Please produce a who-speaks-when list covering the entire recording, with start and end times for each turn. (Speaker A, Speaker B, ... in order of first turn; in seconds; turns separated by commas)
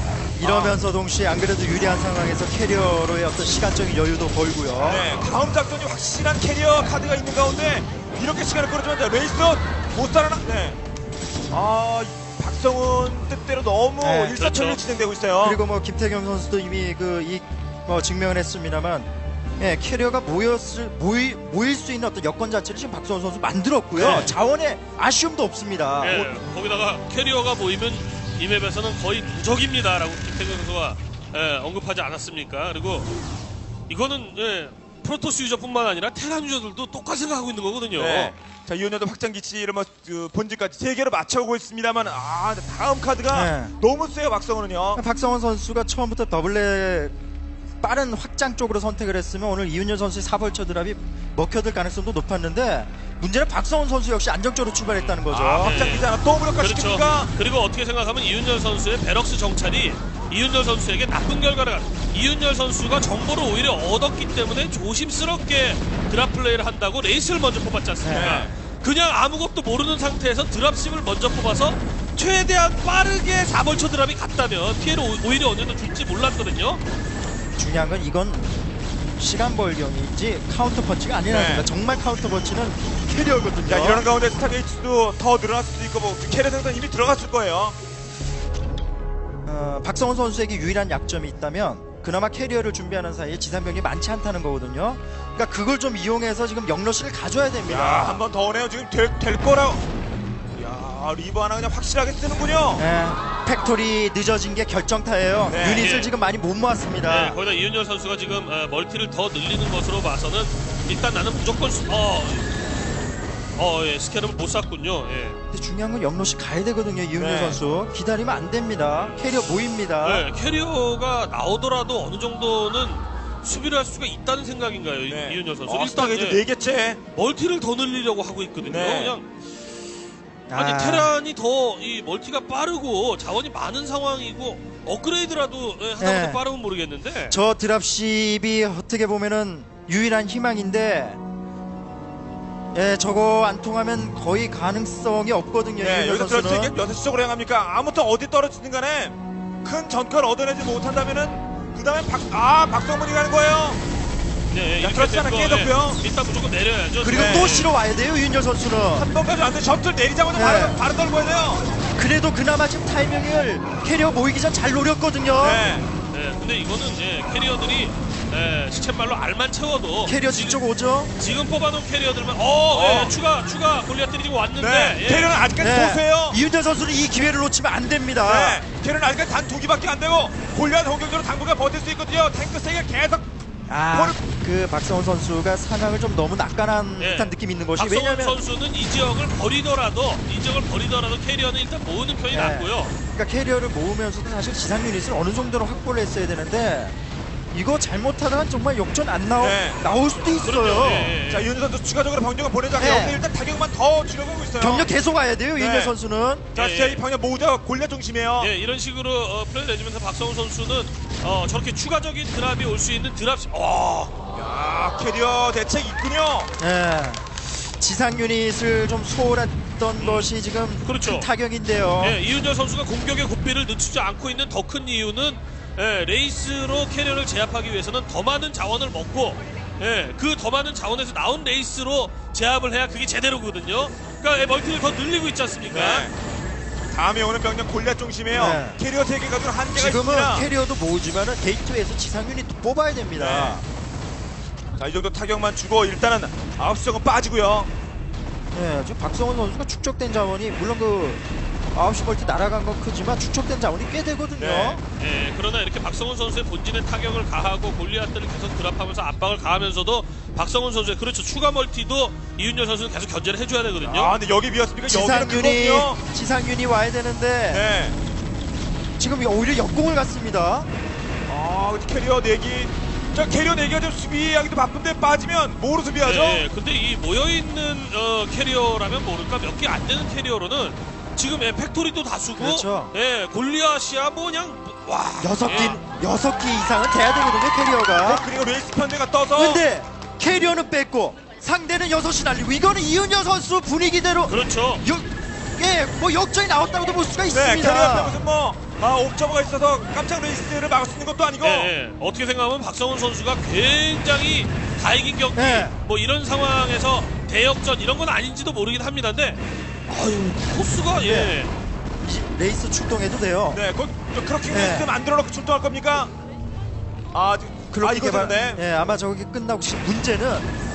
Speaker A: 0.4-5.1, Speaker B: 0.4-0.8, Speaker B: 4.8-10.8, Speaker B: 11.5-15.6, Speaker A: 14.0-14.4, Speaker C: 14.3-14.8, Speaker A: 15.4-26.4, Speaker B: 23.9-24.3, Speaker C: 26.0-33.1, Speaker C: 33.9-38.3, Speaker B: 37.9-45.0, Speaker A: 43.3-43.7, Speaker A: 44.9-47.1, Speaker A: 47.8-55.8, Speaker C: 54.9-76.8, Speaker B: 55.6-57.3, Speaker A: 68.0-68.4, Speaker B: 68.1-68.5, Speaker A: 77.6-78.5, Speaker A: 79.2-84.0, Speaker B: 81.3-81.7, Speaker B: 83.7-87.8, Speaker A: 89.5-98.2, Speaker B: 97.7-99.8, Speaker B: 100.5-102.8, Speaker A: 102.8-107.3, Speaker B: 105.5-105.9, Speaker C: 105.7-106.1, Speaker C: 107.0-112.6, Speaker C: 113.5-115.4, Speaker A: 115.5-120.3, Speaker B: 117.1-117.6, Speaker C: 120.0-126.4, Speaker B: 125.0-127.0, Speaker C: 127.1-129.3, Speaker B: 128.6-129.2, Speaker A: 130.5-131.1, Speaker C: 130.5-137.4, Speaker A: 136.0-136.4, Speaker A: 137.3-141.2, Speaker A: 142.7-146.8, Speaker B: 145.8-153.8, Speaker C: 154.5-157.7, Speaker B: 154.8-156.0, Speaker A: 157.0-159.1, Speaker B: 157.1-157.6, Speaker B: 158.9-161.6, Speaker A: 160.3-160.8, Speaker A: 161.9-165.6, Speaker B: 165.4-165.9, Speaker C: 166.1-170.6, Speaker A: 170.0-171.1, Speaker C: 171.2-175.4, Speaker B: 172.7-173.2, Speaker B: 174.6-176.4, Speaker A: 175.6-178.6, Speaker B: 178.2-183.4, Speaker A: 183.7-188.4, Speaker B: 183.9-184.2, Speaker C: 187.0-192.9, Speaker A: 192.3-196.9, Speaker A: 197.5-201.2, Speaker B: 199.4-199.8, Speaker C: 200.4-201.5, Speaker B: 201.3-204.9, Speaker A: 202.8-203.2, Speaker A: 204.6-206.5, Speaker B: 205.6-205.9, Speaker C: 206.5-207.0, Speaker B: 206.5-208.5, Speaker C: 208.4-214.1, Speaker B: 214.3-216.5, Speaker A: 216.6-222.2, Speaker C: 220.0-220.3, Speaker C: 220.8-221.3, Speaker C: 222.0-236.1, Speaker B: 235.7-236.1, Speaker B: 236.9-240.5, Speaker A: 238.3-238.8, Speaker A: 239.7-243.6, Speaker B: 243.2-243.6, Speaker B: 244.8-247.7, Speaker A: 248.5-254.8, Speaker B: 254.4-254.8, Speaker C: 255.0-264.1, Speaker B: 263.8-266.0, Speaker A: 264.9-267.6, Speaker B: 267.5-267.9, Speaker A: 269.0-270.7, Speaker B: 271.3-276.4, Speaker C: 276.0-285.8, Speaker A: 282.4-282.9, Speaker A: 285.2-288.2, Speaker B: 285.5-285.7, Speaker B: 288.0-289.6, Speaker A: 289.3-298.2, Speaker C: 294.3-294.8, Speaker B: 297.3-301.7, Speaker C: 301.4-311.5, Speaker A: 305.3-305.8, Speaker A: 311.0-311.4, Speaker A: 312.0-313.6, Speaker B: 313.5-316.1, Speaker A: 314.5-314.9, Speaker B: 317.1-318.6, Speaker A: 317.7-320.5